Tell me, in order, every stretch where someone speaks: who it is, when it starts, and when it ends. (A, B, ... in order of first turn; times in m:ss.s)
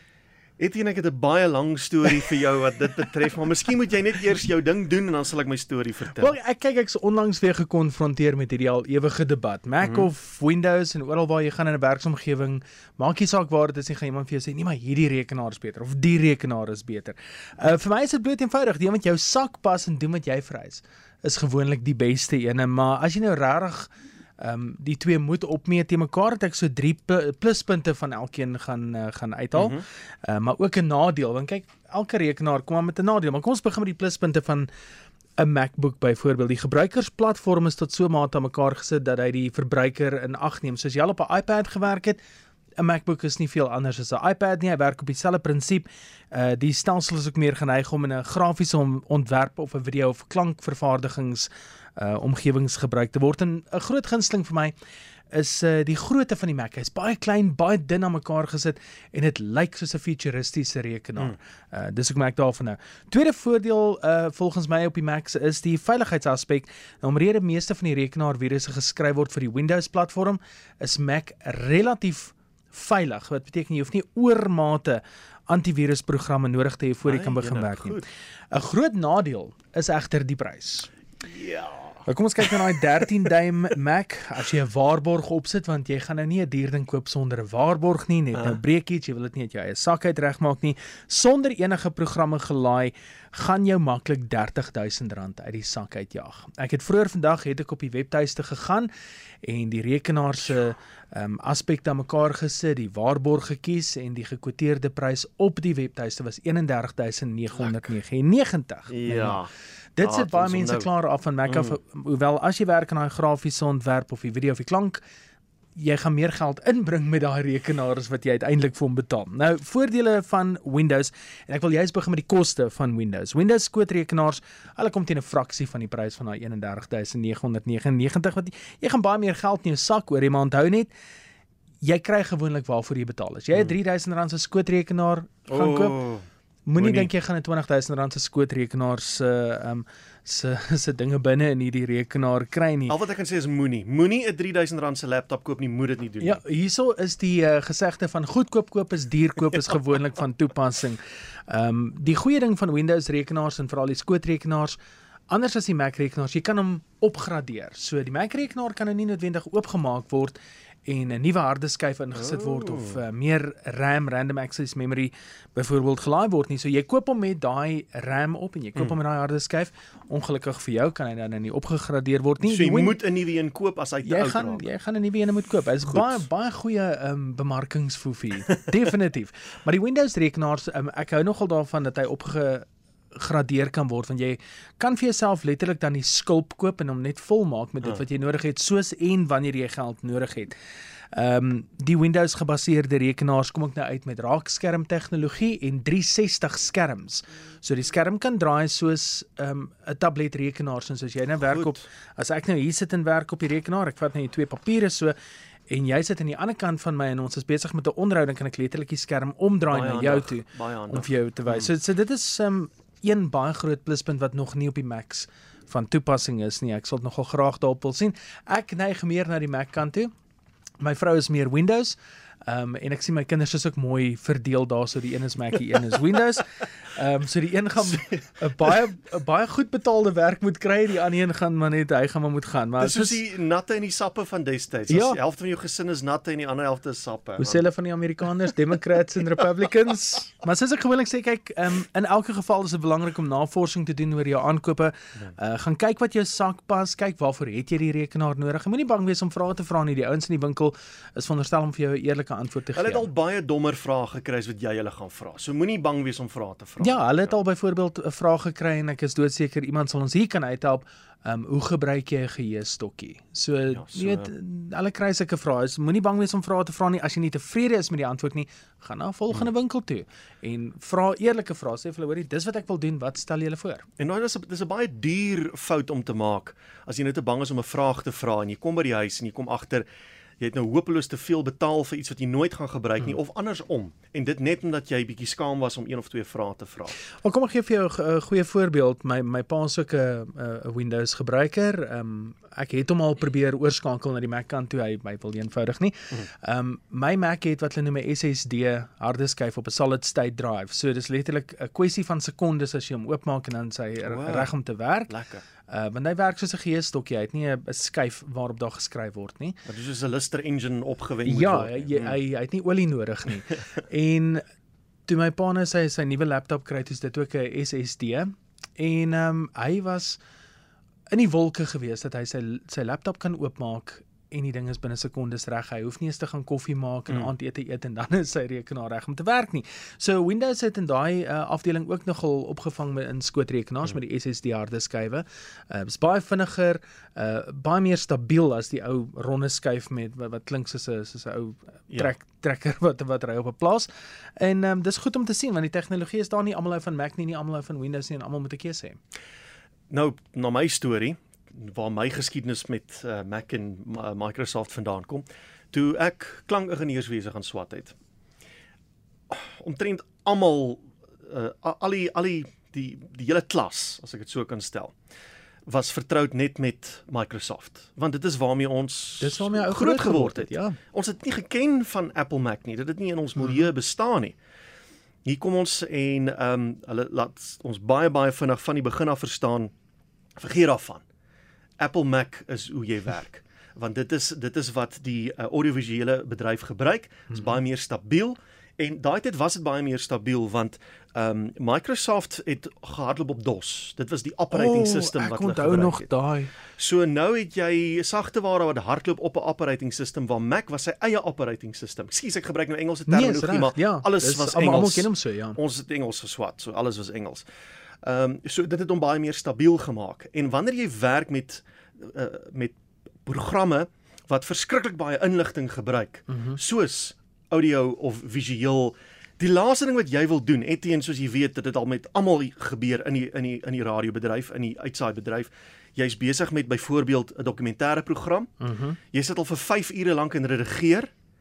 0:00.6-0:06.3 A
0:06.2-0:34.7 B
0:29.6-0:29.8 A
0:35.4-0:42.2 B
0:42.8-0:54.7 B
0:55.3-1:20.9 B
1:17.0-1:18.1 A
1:21.2-1:22.0 A
1:22.1-1:38.9 B
1:39.4-1:49.4 B
1:48.9-1:49.5 A
1:50.0-1:55.0 B
1:50.0-1:50.9 A
1:51.5-1:51.8 A
1:55.8-2:10.9 B
2:11.8-2:16.0 B
2:15.5-2:16.2 A
2:16.7-2:23.0 B
2:16.8-2:17.1 A
2:22.9-2:26.4 A
2:26.2-2:34.8 B
2:35.3-2:53.0 B
2:42.2-2:43.0 A
2:52.5-2:54.7 A
2:54.0-3:10.6 B
2:55.8-2:56.2 A
3:11.1-3:25.2 B
3:21.4-3:21.8 A
3:25.7-3:40.1 B
3:29.7-3:31.7 A
3:40.8-3:42.0 B
3:42.5-3:53.2 B
3:47.9-3:48.2 A
3:52.8-3:57.6 A
3:54.9-3:55.2 B
3:57.4-4:13.1 B
4:12.8-4:17.4 A
4:16.8-4:33.9 B
4:23.7-4:24.3 A
4:34.0-4:39.9 A
4:40.4-4:46.9 A
4:47.2-5:05.1 B
5:04.0-5:04.5 A
5:05.1-5:05.4 A
5:05.7-5:09.6 B
5:09.7-5:12.2 A
5:11.2-5:14.4 B
5:15.1-5:20.2 B
5:21.1-5:49.0 B
5:49.9-5:58.0 A
5:59.3-6:05.0 A
6:05.7-6:14.4 A
6:09.2-6:10.8 B
6:15.2-6:19.7 A
6:20.4-6:21.0 A
6:21.8-6:36.1 A
6:34.5-6:36.5 B
6:36.7-6:47.5 A
6:43.1-6:45.6 B
6:48.0-7:08.5 A
6:56.3-6:56.6 B
7:08.6-7:09.0 B
7:09.1-7:11.1 A